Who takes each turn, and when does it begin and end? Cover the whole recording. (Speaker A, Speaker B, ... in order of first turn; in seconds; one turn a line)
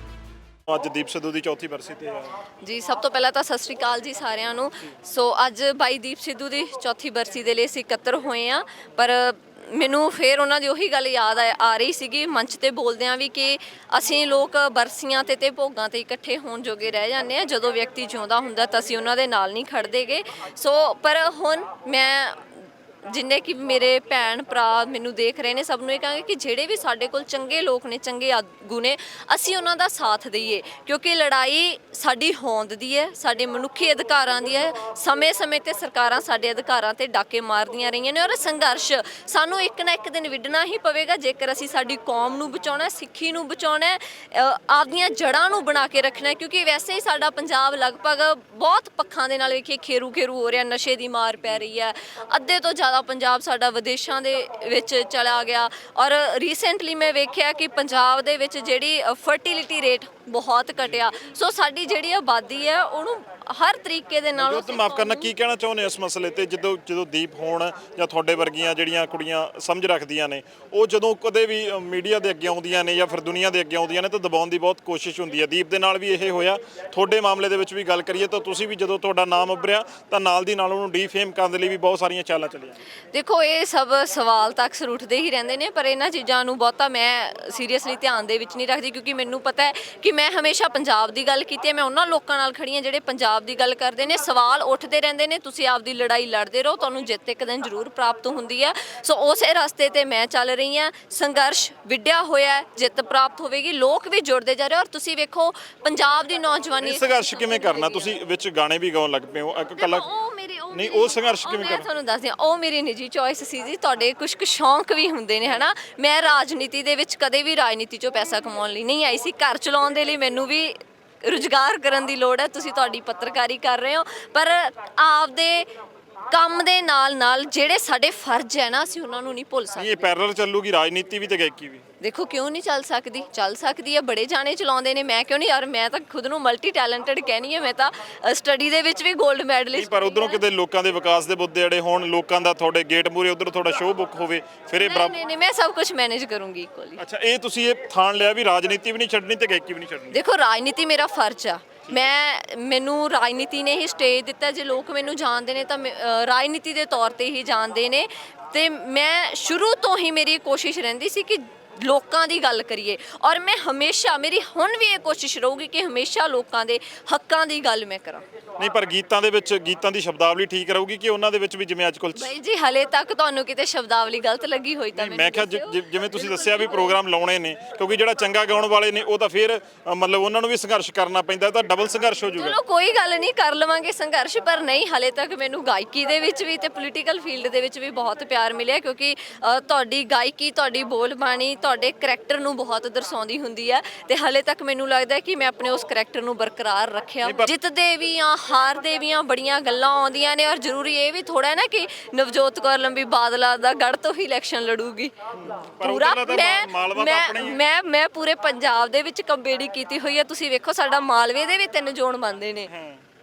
Speaker A: 0.7-2.3
Speaker B: 2.6-65.3
Speaker A: 60.8-61.0
Speaker A: 64.3-82.8
Speaker B: 83.1-108.2
Speaker A: 106.8-110.1
Speaker B: 109.8-125.7
Speaker A: 110.7-111.9
Speaker B: 126.3-130.1
Speaker A: 129.8-131.8
Speaker B: 132.0-140.4
Speaker A: 139.7-145.2
Speaker B: 144.8-147.0
Speaker A: 147.0-150.2
Speaker B: 150.1-168.2
Speaker A: 168.6-172.3
Speaker B: 172.2-177.0
Speaker A: 174.9-182.6
Speaker B: 182.4-212.7
Speaker A: 197.2-197.5
Speaker A: 205.3-207.6
Speaker A: 212.7-213.0